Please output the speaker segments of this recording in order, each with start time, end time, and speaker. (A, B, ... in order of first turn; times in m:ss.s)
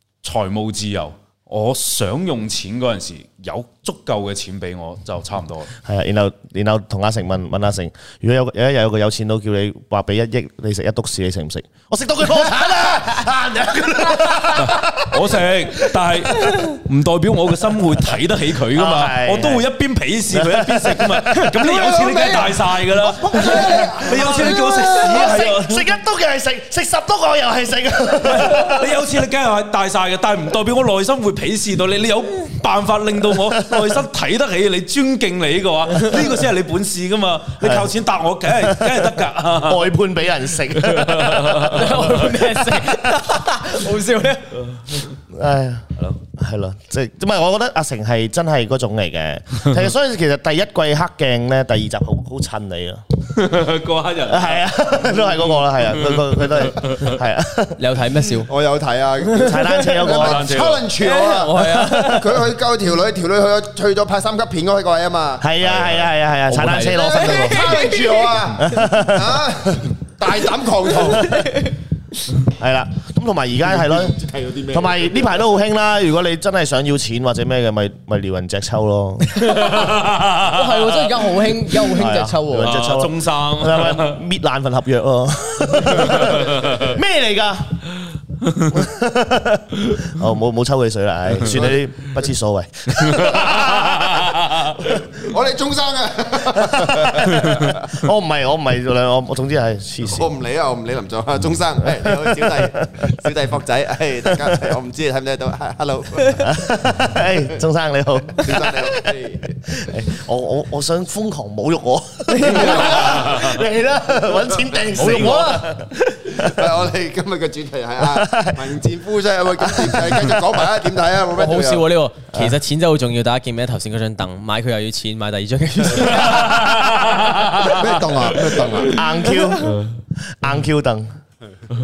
0:00.2-0:05.7 A
0:05.8-0:15.4 B
0:14.6-0:25.9 A
0:18.7-0:19.6 B
0:20.3-0:21.7 B
0:21.6-0:24.9 C
0:23.4-0:28.9 B
0:28.2-0:39.9 A
0:37.6-0:37.9 B
0:38.6-0:42.2 B
0:40.7-0:42.1 A
0:41.7-0:44.6 D
0:45.3-0:53.2 B
0:53.3-0:57.2 A
0:54.2-0:57.8 B
0:57.8-0:58.5 D
0:58.5-1:05.5 C
0:59.3-1:00.0 D
0:59.4-1:00.4 B
1:00.1-1:00.9 A
1:01.0-1:02.3 D
1:05.4-1:07.8 B
1:05.6-1:06.1 A
1:06.5-1:07.9 D
1:07.0-1:11.4 C
1:08.6-1:09.4 B
1:11.4-1:11.7 D
1:12.5-1:14.2 B
1:13.7-1:15.3 C
1:14.7-1:19.4 B
1:19.3-1:21.1 A
1:20.5-1:22.8 D
1:21.9-1:27.8 B
1:22.6-1:24.2 A
1:25.8-1:27.0 A
1:28.7-1:34.0 B
1:31.5-1:31.8 C
1:32.9-1:34.8 A
1:35.1-1:37.8 C
1:36.6-1:40.3 B
1:40.0-1:46.8 C
1:41.9-1:43.1 B
1:44.4-1:44.6 B
1:46.4-1:56.5 B
1:48.3-1:49.9 C
1:52.3-1:52.6 D
1:52.4-1:53.6 C
1:54.9-1:55.8 D
1:56.3-2:01.9 C
1:58.0-1:58.8 B
1:59.6-2:00.2 B
2:01.3-2:06.2 D
2:05.9-2:06.7 C
2:06.2-2:07.7 A
2:07.6-2:09.0 C
2:08.8-2:11.2 B
2:09.6-2:10.0 A